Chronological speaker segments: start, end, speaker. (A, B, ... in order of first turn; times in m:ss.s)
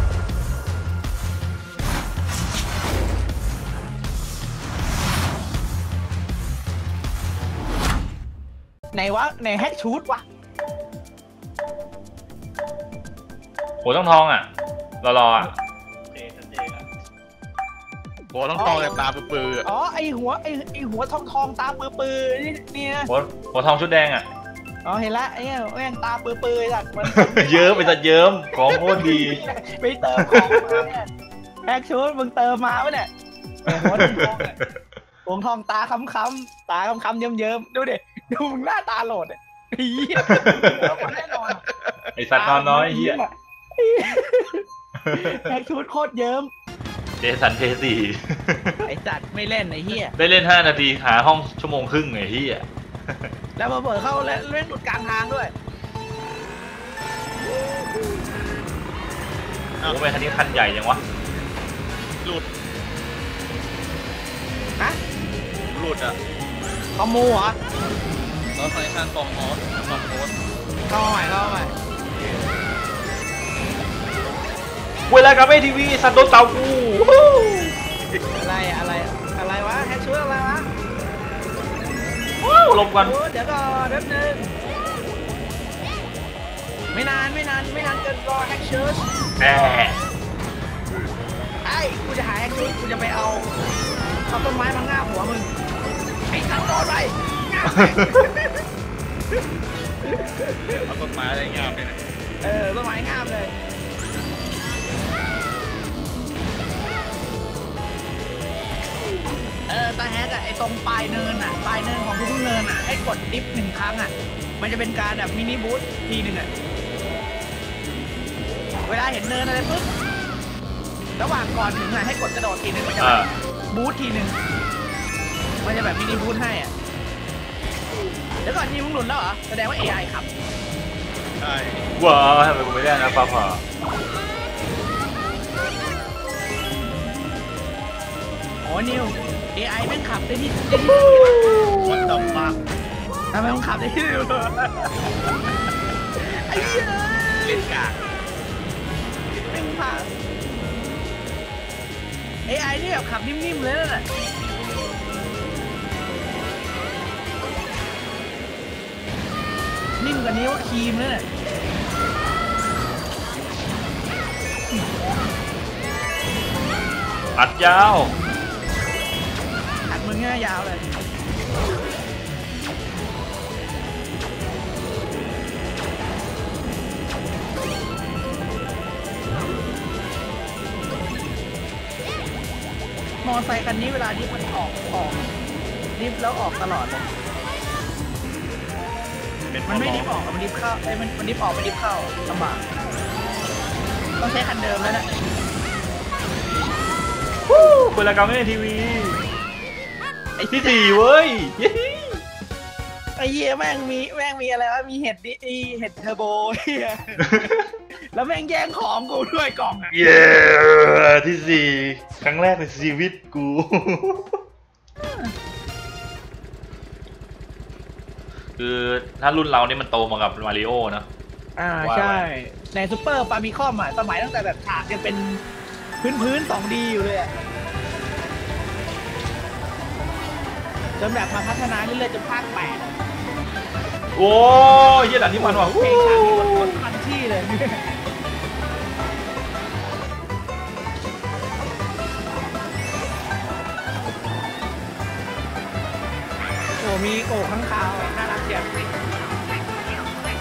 0:08.9-0:10.2 A
0:13.8-0:14.5 B
0:15.0-0:15.5 B
0:16.1-0:16.9 C
0:18.3-0:19.7 C
0:18.6-0:19.0 A
0:19.6-0:23.1 A
0:23.1-0:24.3 B
0:24.8-0:28.0 A
0:27.0-0:29.4 B
0:28.5-0:31.1 A
0:30.2-0:30.8 B
0:31.7-0:33.1 A
0:33.7-0:34.6 A
0:33.7-0:34.7 B
0:35.2-0:41.6 A
0:40.2-0:41.1 B
0:41.0-0:41.9 C
0:42.2-0:43.2 B
0:42.3-0:46.5 A
0:45.0-0:45.4 B
0:47.2-0:48.8 B
0:48.8-0:50.2 A
0:50.2-0:53.3 B
0:53.6-0:55.5 A
0:59.8-1:00.4 C
0:59.8-1:01.0 B
1:05.7-1:06.2 C
1:07.0-1:07.6 A
1:08.6-1:10.4 C
1:10.9-1:11.7 A
1:11.4-1:12.6 C
1:15.1-1:17.8 B
1:18.3-1:20.7 A
1:22.4-1:23.2 B
1:23.0-1:24.6 A
1:26.9-1:29.0 A
1:29.4-1:30.0 B
1:31.6-1:33.5 A
1:34.3-1:35.5 A
1:36.3-1:38.6 A
1:37.7-1:38.2 B
1:40.0-1:40.8 A
1:40.8-1:42.0 C
1:42.4-1:43.5 A
1:49.7-1:56.5 A
1:58.9-1:59.9 A
2:01.2-2:04.4 A
2:03.0-2:03.3 B
2:05.6-2:06.7 A
2:08.4-2:10.3 A
2:11.4-2:11.9 C
2:12.0-2:13.6 B
2:18.6-2:21.4 A
2:20.7-2:22.1 B
2:21.7-2:22.6 C
2:23.3-2:24.9 A
2:26.2-2:27.7 A
2:26.5-2:26.9 C
2:27.4-2:28.0 C
2:29.5-2:30.1 A
2:32.5-2:34.1 A
2:40.0-2:41.3 A
2:47.4-2:48.2 B
2:49.9-2:50.8 A
3:03.2-3:05.3 A
3:06.0-3:07.1 A
3:09.5-3:10.1 C
3:09.7-3:12.6 A
3:14.2-3:15.1 A
3:17.5-3:19.2 B
3:20.4-3:21.0 A
3:20.5-3:22.2 B
3:23.2-3:27.3 A
3:27.2-3:27.6 B
3:28.1-3:30.0 A
3:29.9-3:34.4 B
3:35.0-3:35.3 A
3:38.6-3:41.1 B
3:41.6-3:45.4 A
3:41.8-3:42.3 B
3:46.0-3:47.3 A
3:51.0-3:53.0 A
3:54.2-3:56.7 B
3:55.4-3:57.9 A
4:06.8-4:08.9 A